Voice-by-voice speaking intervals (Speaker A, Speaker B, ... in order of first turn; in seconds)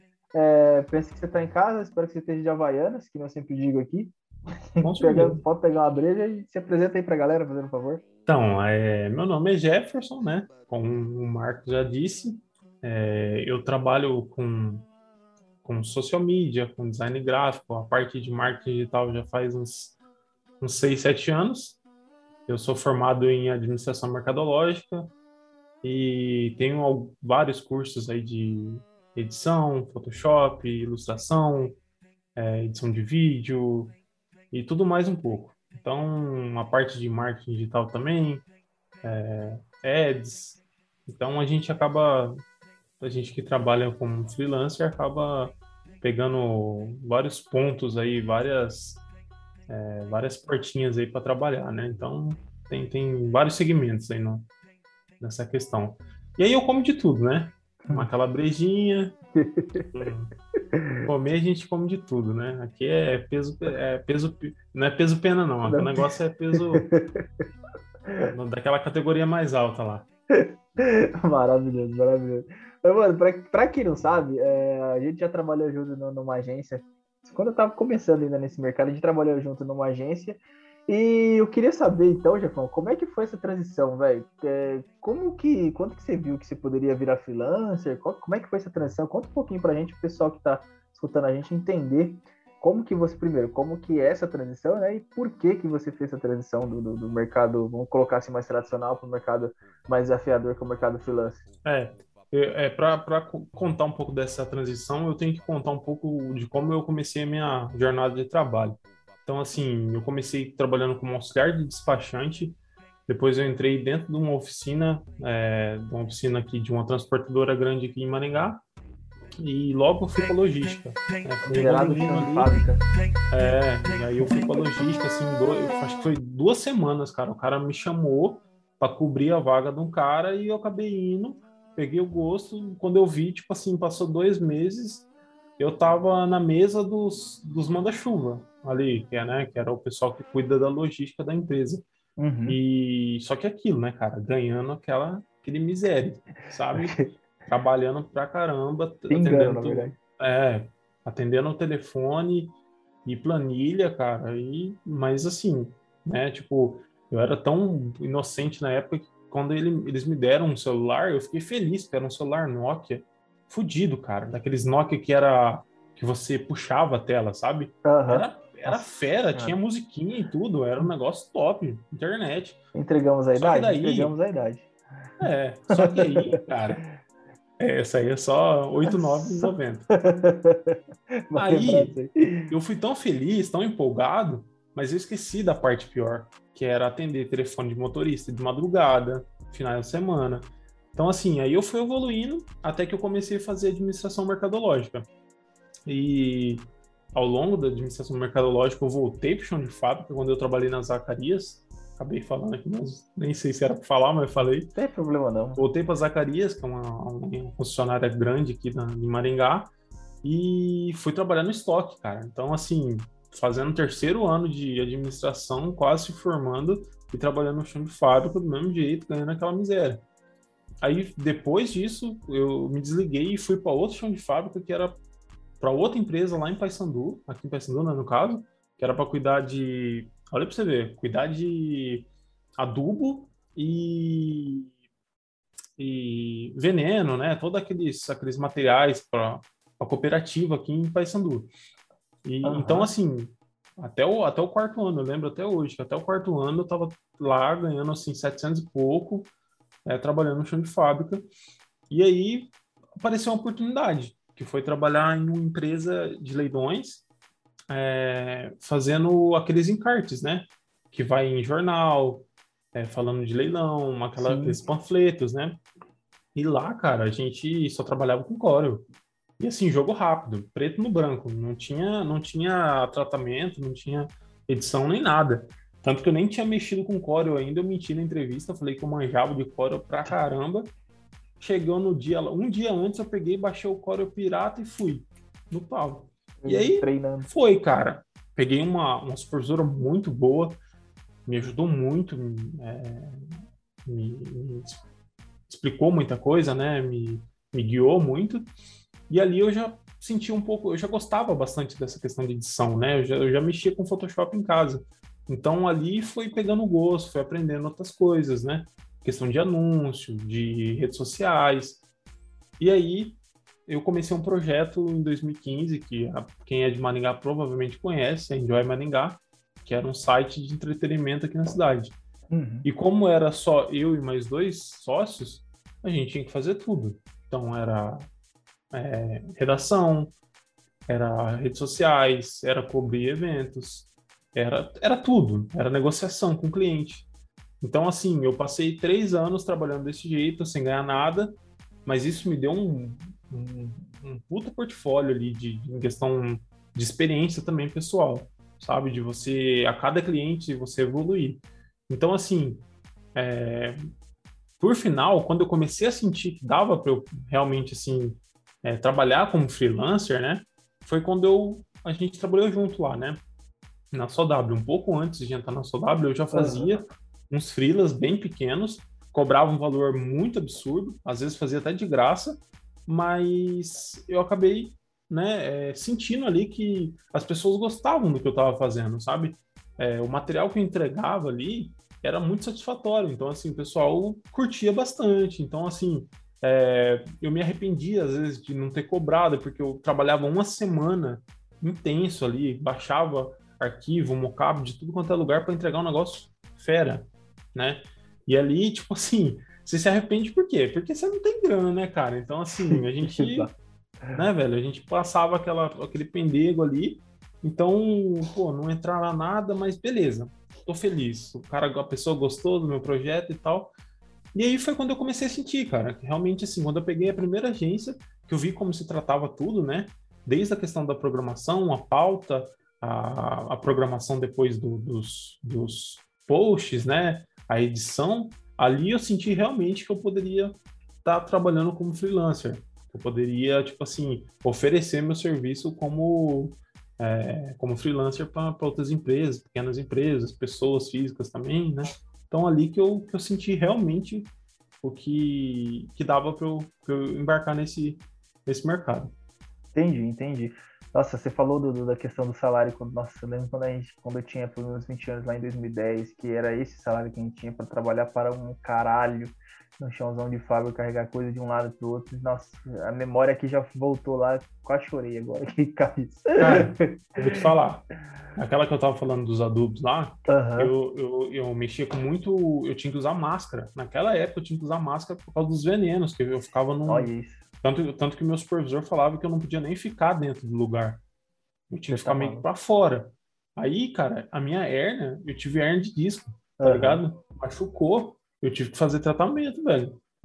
Speaker A: 0.3-4.2, 4.8-8.0, 59.4-59.9, 60.7-61.1, 65.7-67.3, 70.3-101.4, 121.5-122.8, 142.2-142.6, 146.7-147.2, 149.1-149.9, 167.8-169.6, 172.8-174.7, 175.7-176.4, 179.0-180.8, 181.3-182.5, 204.8-205.6, 242.4-242.9, 264.2-264.6, 286.4-287.3, 322.3-322.7, 366.3-366.8, 402.7-403.5, 449.8-467.4, 470.3-470.7, 476.9-477.4, 481.9-482.5, 486.6-487.0
Speaker B: 4.8-5.4, 8.3-14.9, 15.6-20.0, 20.6-21.8, 22.5-25.1, 25.8-31.8, 32.4-34.0, 34.5-38.5, 39.0-42.4, 43.0-49.0, 49.7-54.5, 55.2-59.2, 59.9-60.3, 61.1-66.8, 68.2-70.1, 101.7-118.6, 119.4-122.6, 123.3-135.1, 135.6-141.8, 142.5-152.5, 153.1-172.6, 173.4-174.2, 175.2-176.8, 177.6-179.9, 181.3-182.0, 182.5-195.1, 195.9-204.7, 205.6-209.7, 210.2-220.0, 220.8-225.0, 225.6-234.7, 235.8-241.5, 242.2-249.3, 249.8-251.3, 251.9-257.1, 257.7-265.6, 266.4-268.9, 269.4-280.7, 281.4-290.6, 291.3-293.3, 293.9-294.8, 295.5-298.5, 299.1-311.8, 312.6-322.0, 322.6-328.1, 328.7-330.1, 330.9-337.1, 337.6-352.6, 353.1-353.8, 354.6-363.2, 363.9-403.6, 404.1-413.7, 414.3-444.3, 444.8-449.1, 466.4-481.0, 481.7-490.0